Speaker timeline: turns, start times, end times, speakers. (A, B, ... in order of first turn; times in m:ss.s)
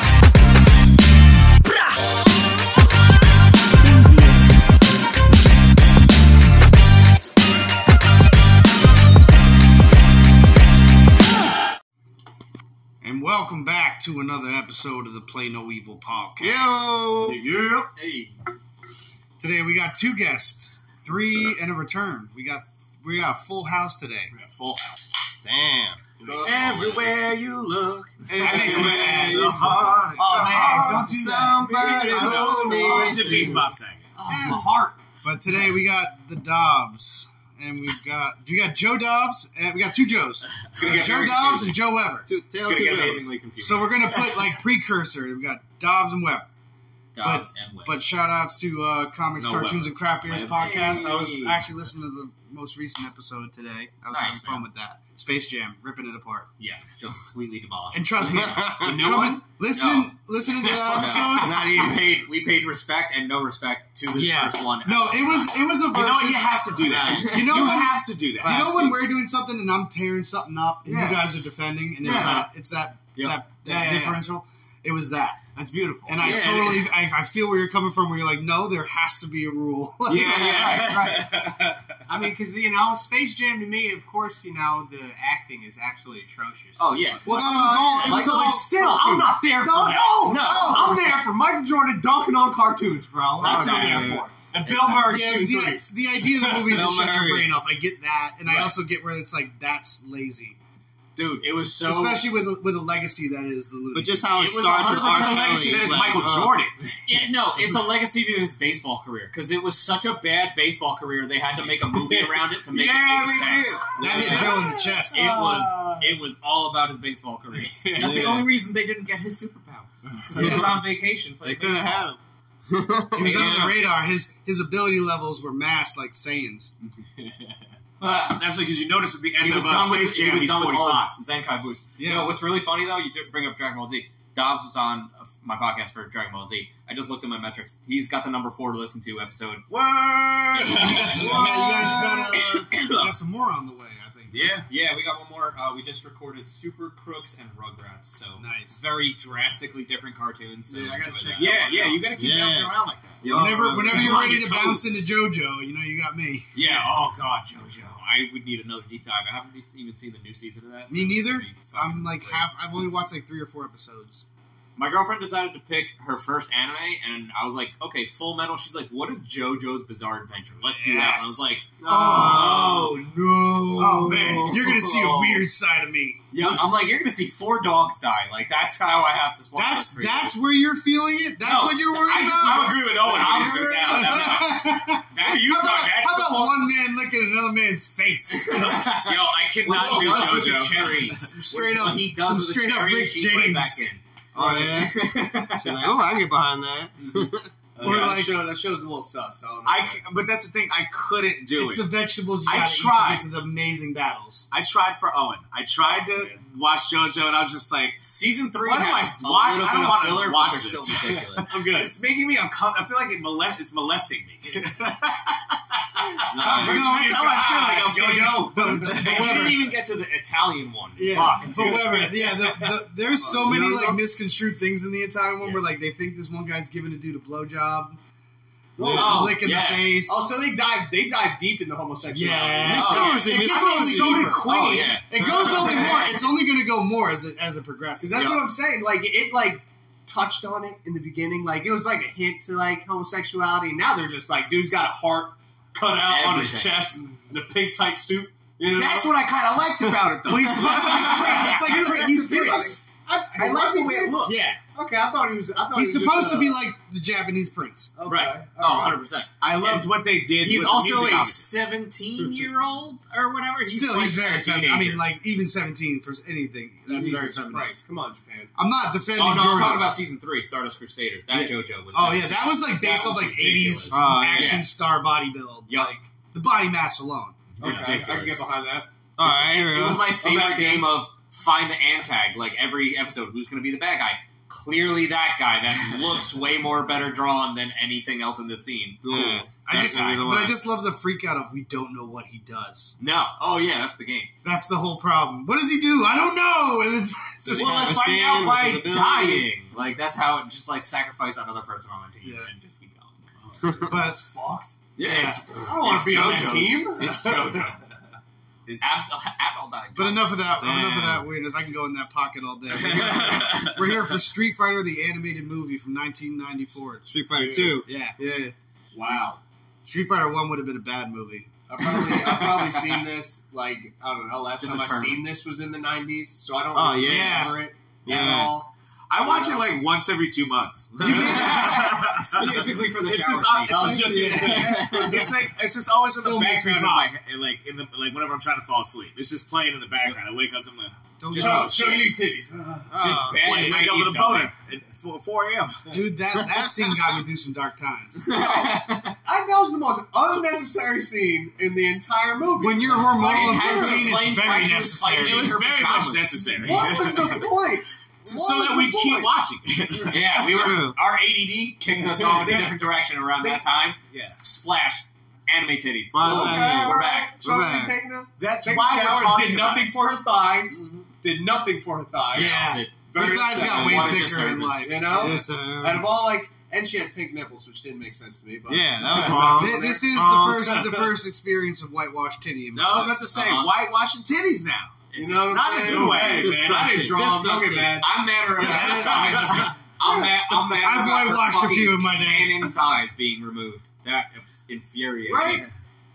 0:13.0-0:16.8 A
0:16.4-0:17.4 B
0:17.2-0:18.3 C
0:18.0-0:18.3 D
0:19.4-0:24.3 A
0:24.6-0:25.0 D
0:25.4-0:27.4 B
0:26.2-0:26.8 C
0:26.4-0:31.0 E
0:28.3-0:33.6 B
0:28.4-0:32.6 A
0:28.7-0:29.3 C
0:30.2-0:33.6 C
0:31.8-0:34.1 E
0:32.5-0:33.6 D
0:34.2-0:34.9 D
0:34.3-0:34.8 C
0:34.4-0:34.6 A
0:35.2-0:42.3 A
0:40.7-0:41.8 D
0:42.2-0:43.4 B
0:42.5-0:44.2 D
0:43.6-0:46.5 A
0:47.1-0:48.0 D
0:47.2-0:56.5 A
0:49.4-0:50.6 E
0:50.2-0:51.6 D
0:54.1-0:54.6 D
0:56.6-1:05.6 D
0:57.9-1:01.9 A
0:58.4-0:59.0 B
1:01.0-1:02.1 B
1:04.1-1:15.4 A
1:05.9-1:08.7 E
1:06.8-1:07.5 B
1:07.1-1:07.4 D
1:08.4-1:09.0 B
1:10.8-1:11.3 C
1:12.0-1:12.5 D
1:12.0-1:12.4 C
1:13.1-1:13.4 D
1:13.6-1:14.2 C
1:15.5-1:16.2 C
1:16.0-1:21.3 A
1:16.2-1:16.7 B
1:16.2-1:16.8 E
1:20.1-1:21.8 E
1:20.1-1:21.1 D
1:22.1-1:35.9 C
1:26.8-1:28.6 D
1:27.2-1:31.3 A
1:27.3-1:28.1 B
1:30.1-1:30.5 E
1:33.4-1:35.1 D
1:33.4-1:34.2 B
1:34.9-1:40.6 A
1:36.6-1:37.5 B
1:41.2-1:42.2 D
1:41.8-1:44.4 A
1:43.9-1:46.6 B
1:44.3-1:46.0 D
1:44.7-1:46.9 E
1:47.0-2:02.1 D
1:52.1-1:53.9 E
1:54.0-1:56.1 C
1:54.0-1:54.6 B
1:54.0-1:55.3 A
1:57.8-1:58.3 C
1:57.9-1:58.5 B
2:00.4-2:00.9 B
2:00.4-2:00.7 A
2:01.4-2:03.8 B
2:03.1-2:06.7 A
2:03.2-2:03.5 D
2:07.2-2:07.6 C
2:08.0-2:08.4 D
2:08.4-2:11.1 E
2:09.4-2:19.6 D
2:12.0-2:12.3 A
2:19.7-2:23.1 E
2:20.6-2:21.0 D
2:20.7-2:24.5 A
2:20.9-2:22.7 B
2:24.3-2:24.7 E
2:24.7-2:31.6 D
2:28.4-2:28.8 A
2:30.7-2:32.1 C
2:31.4-2:33.2 E
2:32.1-2:34.1 B
2:33.2-2:35.0 D
2:33.3-2:36.8 A
2:36.5-2:42.4 D
2:40.9-2:44.2 A
2:44.8-2:55.4 D
2:50.7-2:51.6 A
2:51.8-2:53.0 B
2:53.8-2:54.4 C
2:54.1-2:54.4 E
2:54.4-2:56.2 A
2:56.3-3:00.4 D
2:59.5-3:03.0 A
3:01.4-3:04.4 D
3:02.2-3:06.7 E
3:03.0-3:03.7 C
3:03.8-3:08.8 A
3:08.5-3:15.9 D
3:08.5-3:11.2 E
3:09.7-3:10.9 C
3:11.1-3:13.8 A
3:14.3-3:17.5 B
3:17.8-3:20.0 C
3:17.8-3:18.5 A
3:19.6-3:21.9 E
3:21.5-3:24.5 A
3:22.4-3:23.2 E
3:24.5-3:28.0 E
3:25.9-3:26.3 C
3:28.0-3:31.5 D
3:28.6-3:39.4 E
3:31.4-3:31.9 C
3:36.3-3:36.9 B
3:36.3-3:42.7 D
3:36.4-3:37.7 A
3:38.4-3:39.7 A
3:41.0-3:48.0 A
3:41.2-3:41.6 E
3:43.2-3:44.0 C
3:48.8-3:49.2 B
3:48.8-3:49.4 C
3:48.8-3:50.3 A
3:48.8-3:50.0 D
3:50.1-3:53.1 C
3:52.1-3:54.5 A
3:52.6-3:54.4 B
3:52.8-3:56.0 D
3:52.8-3:55.6 E
3:55.1-3:58.5 A
3:55.4-3:56.1 C
3:58.0-4:09.2 C
4:06.0-4:07.0 D
4:08.7-4:11.9 E
4:09.8-4:16.6 C
4:10.2-4:12.8 A
4:13.4-4:14.3 D
4:13.4-4:14.3 E
4:14.2-4:14.6 A
4:15.7-4:17.9 A
4:18.0-4:19.0 C
4:18.0-4:25.0 D
4:19.4-4:21.5 E
4:23.7-4:27.7 A
4:26.9-4:28.5 C
4:28.6-4:30.0 A
4:29.1-4:34.7 D
4:31.3-4:37.4 A
4:33.9-4:34.6 B
4:35.7-4:36.0 D
4:37.6-4:37.9 E
4:37.6-4:38.4 D
4:37.6-4:40.9 C
4:39.2-4:40.1 B
4:39.2-4:50.3 D
4:49.0-4:50.6 B
4:49.6-4:52.9 A
4:53.0-4:54.3 D
4:54.4-4:57.9 A
4:57.5-4:59.4 B
4:57.5-4:59.1 C
4:57.6-5:03.2 D
5:02.2-5:02.5 A
5:03.6-5:03.9 B
5:03.8-5:04.2 A
5:03.9-5:04.7 C
5:05.0-5:07.8 D
5:05.0-5:05.4 A
5:05.6-5:07.8 C
5:08.6-5:09.0 E
5:08.8-5:10.4 D
5:09.9-5:17.0 A
5:10.6-5:11.3 B
5:12.7-5:13.8 E
5:17.0-5:18.5 B
5:17.3-5:17.8 C
5:17.8-5:18.2 A
5:18.9-5:19.4 C
5:19.8-5:21.5 A
5:21.7-5:28.7 C
5:24.6-5:25.3 D
5:26.7-5:27.5 B
5:27.0-5:27.6 A
5:28.0-5:28.6 B
5:29.1-5:42.0 E
5:29.2-5:29.6 C
5:31.0-5:32.2 A
5:31.0-5:35.2 D
5:32.4-5:33.0 C
5:33.6-5:35.4 C
5:33.7-5:34.9 A
5:36.0-5:37.1 A
5:41.2-5:42.0 A
5:41.3-5:41.8 D
5:41.3-5:43.2 C
5:42.9-5:43.5 B
5:43.0-5:44.5 D
5:43.4-5:45.8 E
5:45.9-5:48.5 A
5:46.4-5:46.7 B
5:48.2-5:49.2 D
5:48.3-5:54.2 C
5:52.6-5:55.5 A
5:53.2-5:56.5 D
5:55.2-5:57.5 E
5:56.6-5:59.3 C
5:58.2-6:00.5 E
6:00.1-6:07.3 D
6:00.5-6:01.0 B
6:02.1-6:02.6 C
6:03.4-6:04.4 E
6:06.1-6:08.0 B
6:06.2-6:14.3 C
6:08.4-6:09.9 E
6:12.3-6:15.4 A
6:12.4-6:13.0 D
6:13.5-6:15.0 D
6:14.8-6:21.1 C
6:15.0-6:16.4 B
6:18.7-6:19.8 B
6:19.5-6:23.2 A
6:22.7-6:23.7 D
6:22.8-6:26.6 E
6:25.1-6:26.3 D
6:25.1-6:29.5 C
6:25.8-6:27.9 B
6:27.8-6:35.7 D
6:28.5-6:32.7 A
6:28.6-6:29.6 E
6:35.3-6:35.6 A